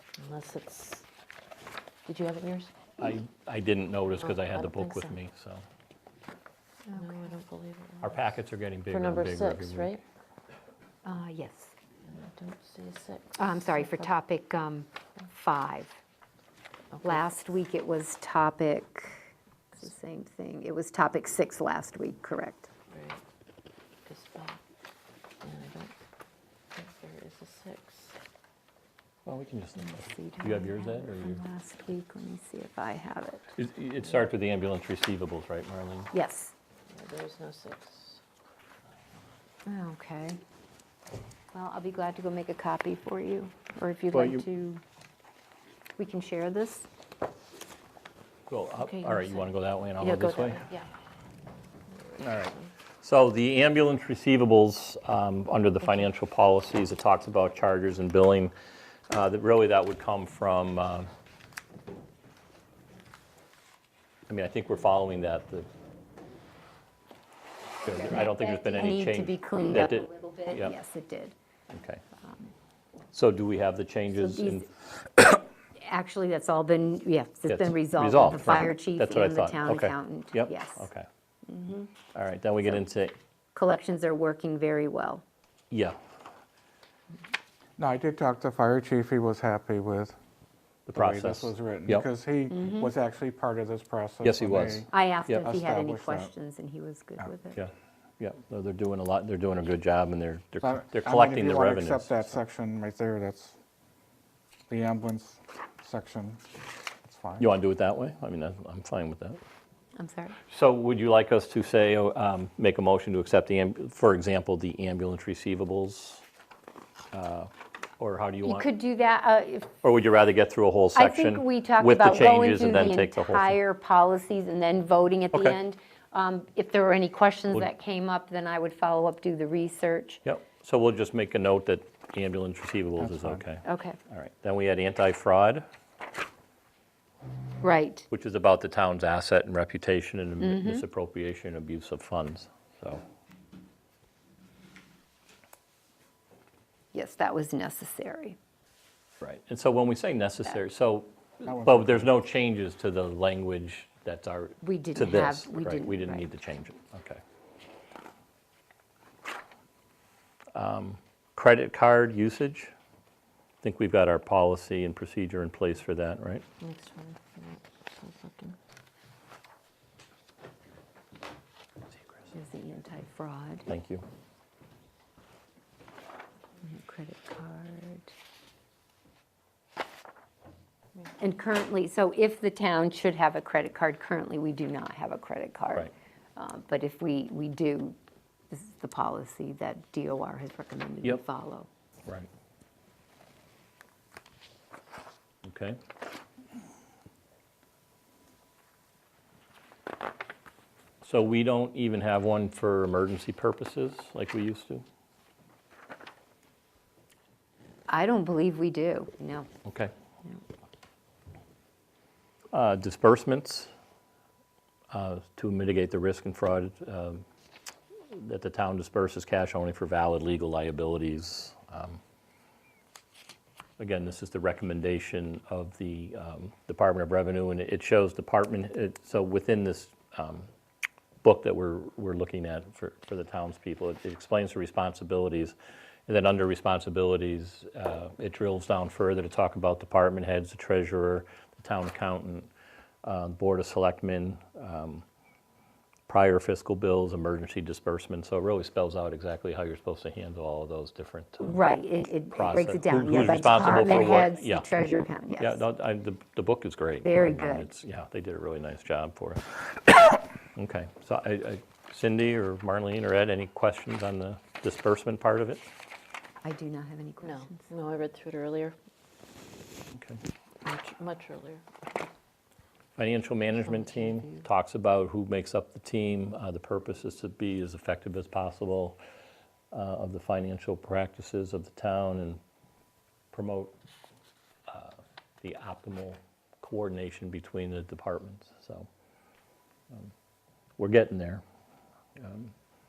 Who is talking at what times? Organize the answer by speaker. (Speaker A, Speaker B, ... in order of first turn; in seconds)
Speaker A: 0.2-1.0, 2.0-3.1, 4.1-5.2, 6.9-8.3, 8.9-10.0, 12.1-14.1, 16.9-17.2, 22.9-23.2, 24.1-24.6, 25.4-25.9, 26.7-28.2, 36.9-38.2, 48.8-50.9, 52.0-52.7, 166.6-168.6, 267.2-268.8, 270.6-272.0
Speaker B: 3.0-5.7, 8.0-9.9, 29.2-31.4, 33.5-36.1, 44.1-44.4, 48.5-50.7, 52.2-58.5, 59.1-61.1, 64.3-65.7, 67.8-70.7, 71.7-72.0, 73.1-74.7, 77.5-81.1, 82.1-83.2, 85.7-86.0, 90.9-92.1, 94.2-95.5, 97.5-102.4, 107.4-109.4, 110.5-116.2, 117.1-118.7, 119.8-123.6, 125.3-125.6, 130.2-135.6, 138.1-143.0, 149.2-157.2, 160.5-162.7, 163.6-166.4, 173.7-174.0, 195.4-195.8, 201.0-204.8, 209.6-209.9, 212.5-213.7, 214.9-217.2, 218.1-222.0, 223.8-230.5, 231.2-235.5, 236.1-242.5, 243.0-245.0, 246.1-251.6, 252.3-254.7, 255.4-265.7, 269.9-270.2, 272.9-279.0, 279.7-282.4, 283.3-283.7, 284.7-288.9, 290.8-291.4, 292.1-292.5
Speaker C: 6.9-7.2, 11.0-11.7, 13.4-15.9, 17.0-22.7, 29.8-33.5, 36.1-36.5, 39.6-40.4, 41.5-44.8, 46.0-46.9, 67.8-71.3, 72.2-72.5, 74.1-74.7, 75.3-80.9, 81.5-81.9, 83.5-85.2, 92.5-92.9, 94.9-97.7, 110.0-110.4, 118.4-119.7, 120.9-130.2, 133.6-134.0, 137.6-138.1, 140.4-140.8, 146.9-148.3, 154.6-156.4, 172.3-173.7, 176.6-178.1, 181.2-188.0, 188.5-191.7, 207.9-209.5, 251.4-255.6, 257.0-257.7, 266.4-267.7, 273.6-274.5
Speaker D: 87.8-90.2, 90.9-94.9, 95.4-96.3, 100.6-103.6, 104.7-106.4, 107.0-107.5, 133.0-133.4, 151.4-152.3